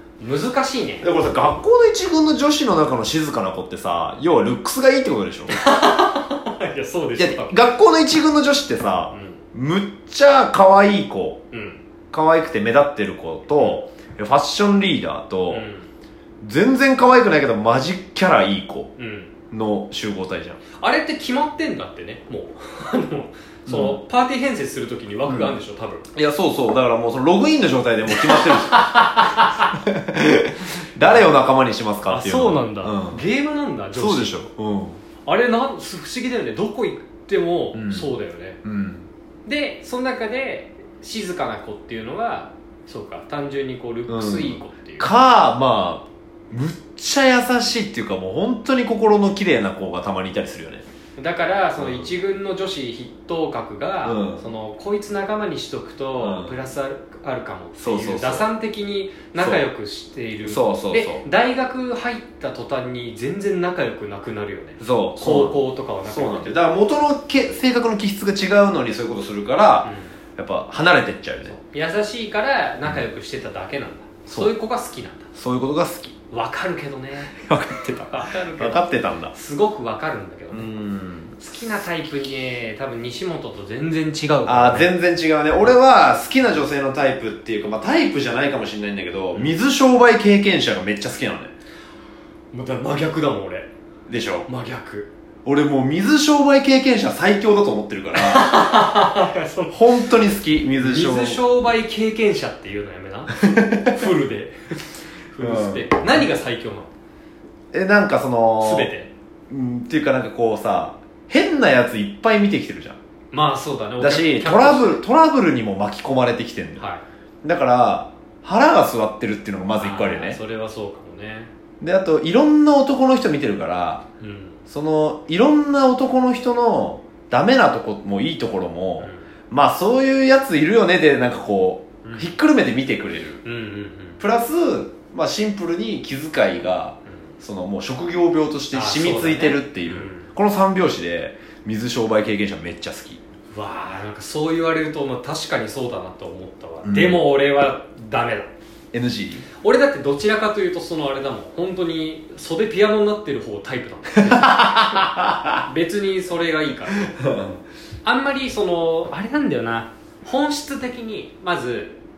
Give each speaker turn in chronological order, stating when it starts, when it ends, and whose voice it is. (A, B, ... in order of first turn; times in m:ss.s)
0:00.2-0:01.1 A
0:01.0-0:05.6 B
0:05.5-0:07.6 A
0:07.2-0:11.4 B
0:09.1-0:09.4 A
0:11.5-0:11.8 A
0:12.1-0:15.6 B
0:13.5-0:13.8 A
0:15.5-0:15.9 A
0:16.4-0:18.9 B
0:19.0-0:19.3 A
0:19.5-0:20.6 B
0:20.7-0:26.1 A
0:23.7-0:24.0 B
0:25.3-0:25.6 B
0:26.1-0:29.1 B
0:28.1-0:29.7 A
0:29.8-0:33.2 B
0:32.1-0:34.4 A
0:33.9-0:35.0 B
0:35.2-0:38.6 A
0:37.7-0:38.1 B
0:38.6-0:39.1 B
0:39.4-0:45.1 A
0:44.1-0:50.8 B
0:51.2-1:06.6 A
0:51.8-0:52.1 B
0:54.0-0:54.4 B
0:56.2-0:56.6 B
0:57.8-0:58.5 B
0:59.4-0:59.6 B
1:00.4-1:01.2 B
1:04.8-1:11.5 B
1:09.8-1:10.1 A
1:11.4-1:15.3 A
1:14.3-1:14.5 B
1:15.4-1:16.1 B
1:16.3-1:17.4 A
1:17.3-1:19.3 B
1:18.0-1:20.7 A
1:20.5-1:21.4 B
1:21.4-1:24.9 A
1:24.4-1:31.5 B
1:32.5-1:33.7 A
1:34.1-1:34.5 B
1:34.4-1:35.1 A
1:35.4-1:38.5 B
1:38.2-1:40.1 A
1:39.7-1:41.4 B
1:40.8-1:46.9 A
1:43.3-1:43.9 B
1:45.4-1:45.9 B
1:47.7-1:48.9 B
1:48.6-1:49.1 A
1:49.5-1:53.0 B
1:53.3-1:55.0 A
1:54.0-1:56.8 B
1:56.8-1:57.0 A
1:57.4-2:00.4 B
1:59.8-2:01.5 A
2:01.8-2:04.0 B
2:04.2-2:04.6 A
2:04.7-2:13.4 B
2:09.0-2:09.3 A
2:12.0-2:12.3 A
2:13.4-2:14.2 A
2:14.2-2:23.2 B
2:18.7-2:20.3 A
2:23.5-2:28.5 A
2:26.8-2:27.2 B
2:28.9-2:29.4 B
2:29.6-2:37.2 A
2:34.2-2:35.6 B
2:37.1-2:37.6 B
2:38.0-2:42.0 A